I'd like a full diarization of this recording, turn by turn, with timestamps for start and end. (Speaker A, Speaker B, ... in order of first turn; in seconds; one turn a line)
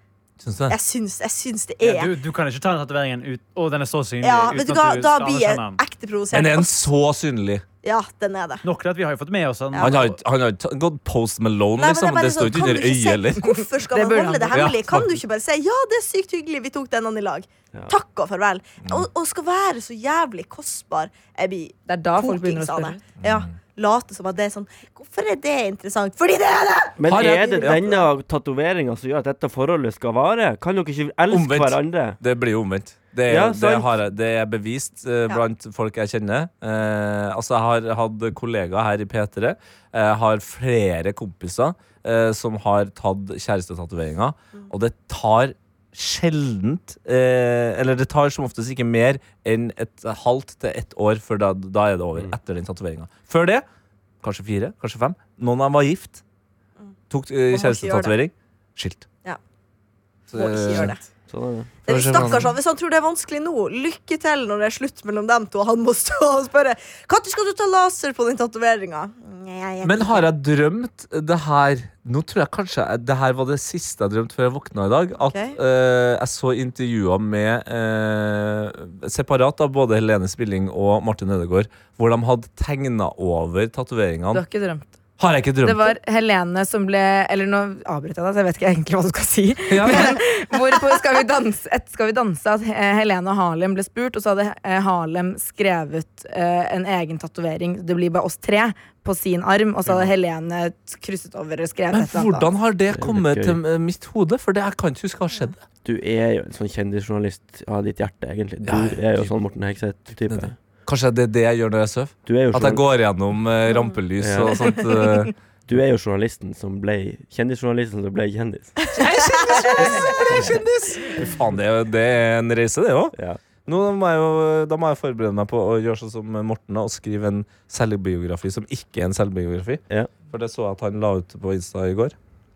Speaker A: 0.4-0.8
Speaker B: 0.7-2.1
Speaker C: 1.8-5.8
Speaker B: 4.2-6.7
Speaker A: 6.3-7.6
Speaker B: 7.8-8.6
Speaker C: 8.6-10.1
Speaker B: 9.7-10.0
Speaker A: 9.8-13.6
Speaker B: 11.8-28.1
Speaker D: 13.9-15.0
Speaker A: 14.5-15.1
Speaker D: 21.9-23.0
Speaker A: 23.2-23.5
Speaker E: 27.0-32.2
Speaker A: 27.1-28.0
Speaker A: 31.3-53.6
Speaker E: 33.3-33.9
Speaker A: 54.2-56.2
Speaker A: 57.1-59.1
Speaker B: 57.5-58.1
Speaker A: 60.3-61.0
Speaker B: 60.3-61.0
Speaker E: 61.3-61.8
Speaker B: 61.9-70.2
Speaker A: 61.9-62.5
Speaker A: 69.8-84.4
Speaker B: 75.2-75.6
Speaker D: 84.3-85.0
Speaker A: 85.2-86.0
Speaker D: 85.6-102.5
Speaker A: 89.7-90.2
Speaker A: 101.9-105.7
Speaker E: 102.9-103.6
Speaker E: 105.8-110.5
Speaker A: 108.6-109.2
Speaker A: 110.2-115.3
Speaker E: 112.2-112.8
Speaker E: 114.2-114.7
Speaker E: 115.7-118.9
Speaker A: 119.0-132.1
Speaker E: 123.1-123.4